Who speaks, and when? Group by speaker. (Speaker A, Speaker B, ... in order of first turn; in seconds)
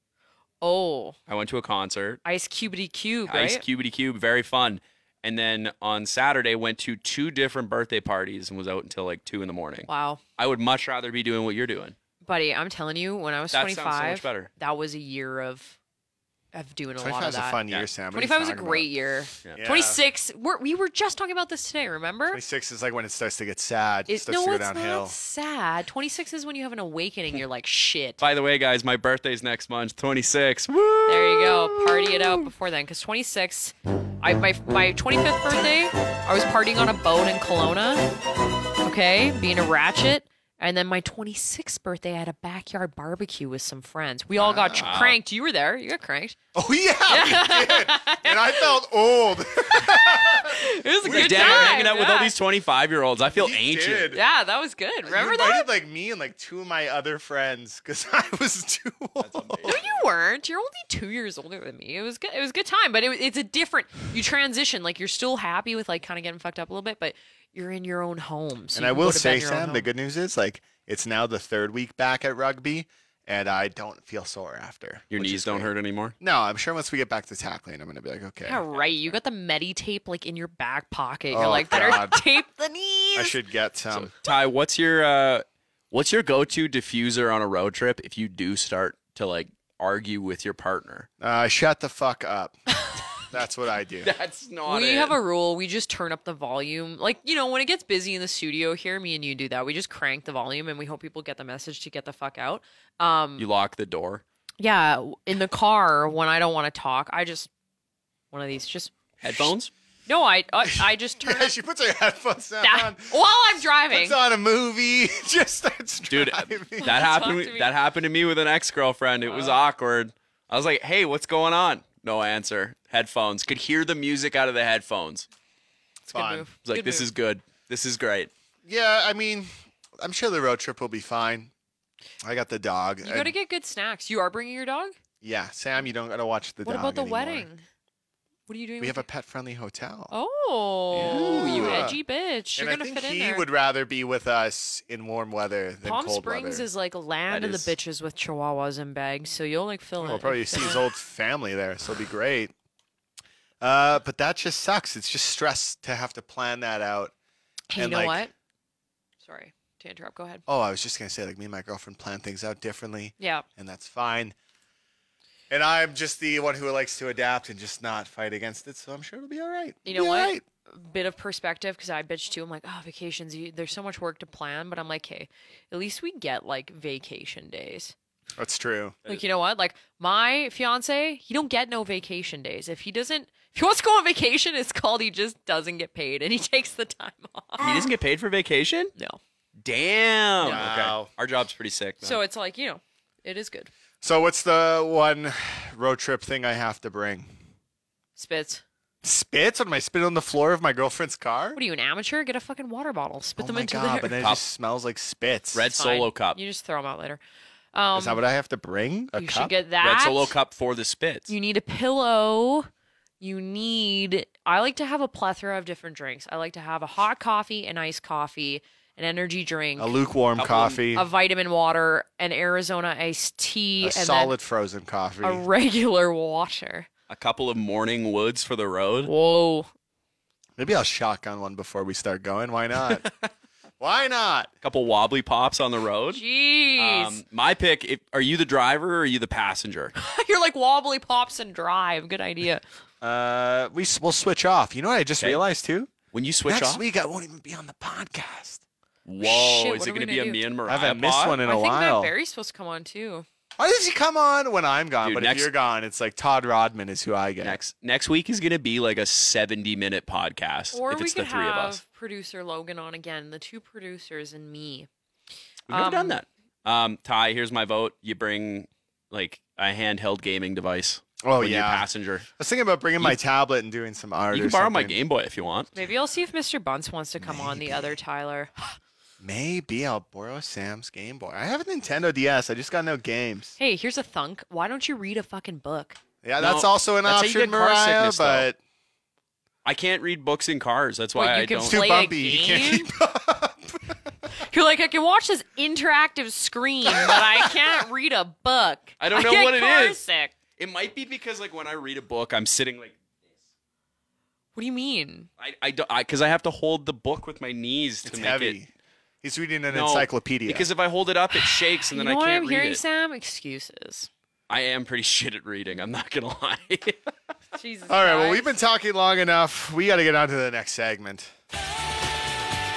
Speaker A: 0.6-1.1, 2.2-3.6, 9.9-10.2, 12.2-15.8, 16.5-17.6, 18.1-22.4, 24.1-28.2, 31.1-38.1, 38.8-46.4, 47.1-48.7, 49.8-52.3, 54.1-55.7, 59.6-69.9, 78.4-83.4, 94.7-103.5, 104.6-107.5, 108.3-109.5, 110.1-111.5, 112.6-114.2, 116.8-117.7, 119.2-119.6, 126.1-127.1, 133.0-134.9, 136.6-137.6, 138.5-139.0, 140.1-143.5, 145.8-150.8, 157.7-158.3, 159.2-160.4, 163.2-163.4, 169.8-177.9, 179.1-187.6, 192.0-193.7, 198.2-198.6, 201.5-204.2, 205.7-207.2, 207.7-208.2, 209.1-210.3, 211.3-212.7, 213.2-220.0, 220.9-224.3, 225.2-226.9, 229.0-229.7, 236.1-237.2, 239.9-242.6, 249.2-250.4, 251.4-253.2, 260.7-264.9, 265.7-266.2, 275.7-278.8, 283.6-286.0, 291.1-292.9, 294.3-300.3, 304.5-305.3, 311.3-314.1, 317.5-318.6
Speaker B: 1.3-2.2, 3.3-11.9, 13.5-14.5, 28.2-32.5, 44.8-45.2, 51.0-54.2, 59.2-60.0, 75.1-76.1, 78.7-79.2, 83.9-91.1, 94.0-95.2, 103.4-104.2, 109.2-109.7, 116.1-125.3, 126.6-128.3, 140.9-141.9, 147.3-147.7, 187.6-188.9, 189.6-192.2, 205.5-206.4, 209.8-211.3, 220.4-220.8, 227.1-229.1, 234.6-236.2, 236.8-239.9, 246.1-246.8, 249.0-251.4, 255.0-255.5, 257.4-261.8, 265.7-272.2, 274.3-275.7, 286.4-288.5, 289.6-291.8, 299.0-300.0, 300.6-303.0, 305.4-308.6, 309.7-312.8, 314.5-317.0
Speaker C: 17.0-18.9, 19.5-20.0, 22.3-25.1, 44.4-45.0, 46.5-51.8, 53.3-54.2, 55.0-59.8, 68.7-78.6, 81.3-82.2, 83.1-84.1, 91.2-92.6, 93.2-94.1, 110.6-113.1, 113.9-117.0, 126.1-126.5, 128.6-131.5, 132.2-133.3, 135.2-137.5, 138.8-140.1, 140.9-142.0, 142.6-146.7, 150.0-152.5, 153.6-157.1, 157.8-158.3, 160.5-164.3, 165.5-170.4, 178.4-179.0, 190.4-191.1, 194.0-197.3, 199.0-201.6, 203.4-205.7, 207.9-209.5, 219.8-221.1, 223.8-225.4, 230.6-233.1, 233.8-234.5, 243.0-245.9, 246.5-248.6, 250.7-252.1, 253.6-257.6, 271.2-275.0, 277.2-277.9, 279.2-283.6, 286.2-288.6, 291.6-294.0, 296.9-297.3, 308.0-310.7, 317.9-321.3